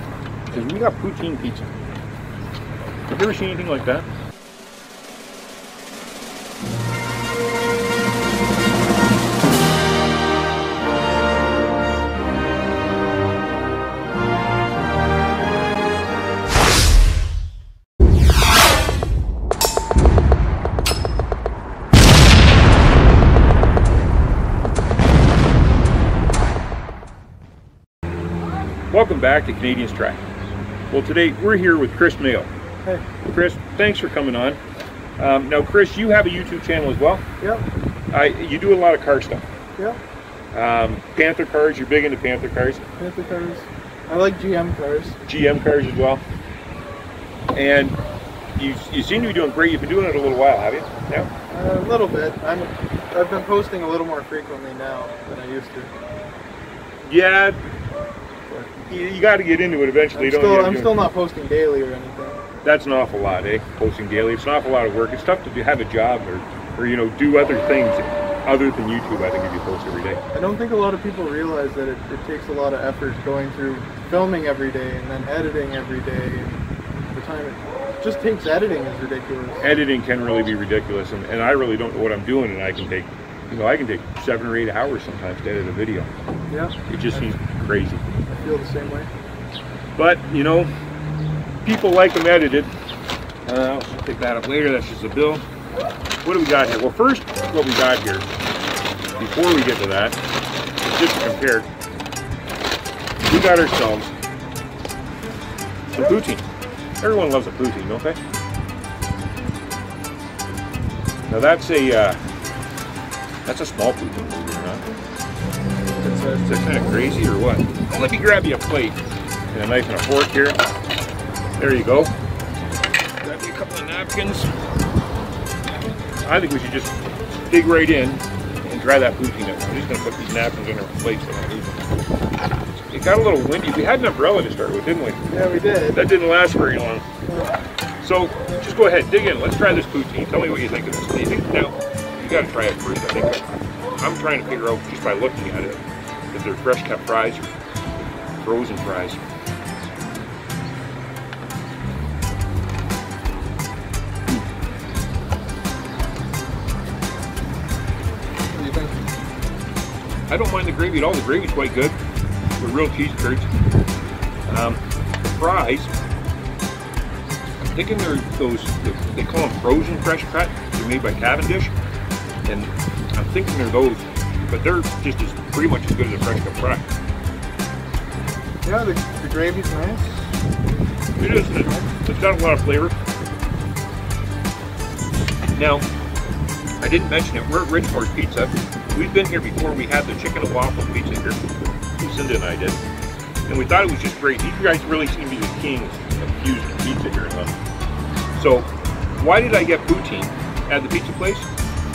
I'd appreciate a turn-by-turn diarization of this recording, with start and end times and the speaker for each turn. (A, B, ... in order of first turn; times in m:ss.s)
0:00.5-0:01.7 A
0:03.1-0:04.0 A
0:28.9-0:30.2 A
0:30.9-0:32.5 A
0:33.2-0:34.6 A
0:35.2-0:37.2 A
0:38.1-0:39.4 A
0:40.5-0:42.8 A
0:43.0-0:45.2 B
0:45.3-0:46.2 A
0:47.5-0:48.0 A
0:48.6-0:51.3 A
0:51.5-0:55.9 B
0:57.0-0:57.6 A
0:58.7-1:01.0 A
1:00.2-1:02.4 B
1:02.6-1:10.2 A
1:10.3-1:19.7 B
1:19.6-1:26.1 A
1:26.5-1:27.3 B
1:26.9-1:28.0 A
1:28.3-1:29.1 B
1:30.0-1:30.7 A
1:31.6-1:32.7 A
1:33.4-1:35.4 A
1:36.2-1:38.3 A
1:39.2-1:40.2 A
1:40.8-1:41.7 A
1:43.2-1:44.1 A
1:45.9-1:46.4 A
1:47.0-1:48.2 A
1:51.3-1:52.2 A
1:53.4-1:54.8 A
1:56.0-1:56.5 B
1:56.4-1:59.0 A
1:59.5-2:00.6 A
2:01.6-2:02.1 A
2:03.2-2:04.5 A
2:06.2-2:06.9 A
2:07.4-2:11.9 A
2:12.8-2:15.2 A
2:15.3-2:16.0 B
2:15.9-2:17.1 A
2:17.2-2:17.6 B
2:18.0-2:23.5 A
2:24.0-2:27.5 A
2:28.4-2:29.2 A
2:38.5-2:39.1 B
2:40.3-2:42.0 A
2:42.6-2:43.5 A
2:44.5-2:45.9 A
2:47.6-2:51.7 A
2:52.5-2:56.9 A
2:58.6-3:00.3 B
3:01.2-3:02.9 A
3:05.6-3:05.9 A
3:06.8-3:11.4 A
3:12.0-3:12.8 A
3:13.5-3:17.6 A
3:18.3-3:21.5 A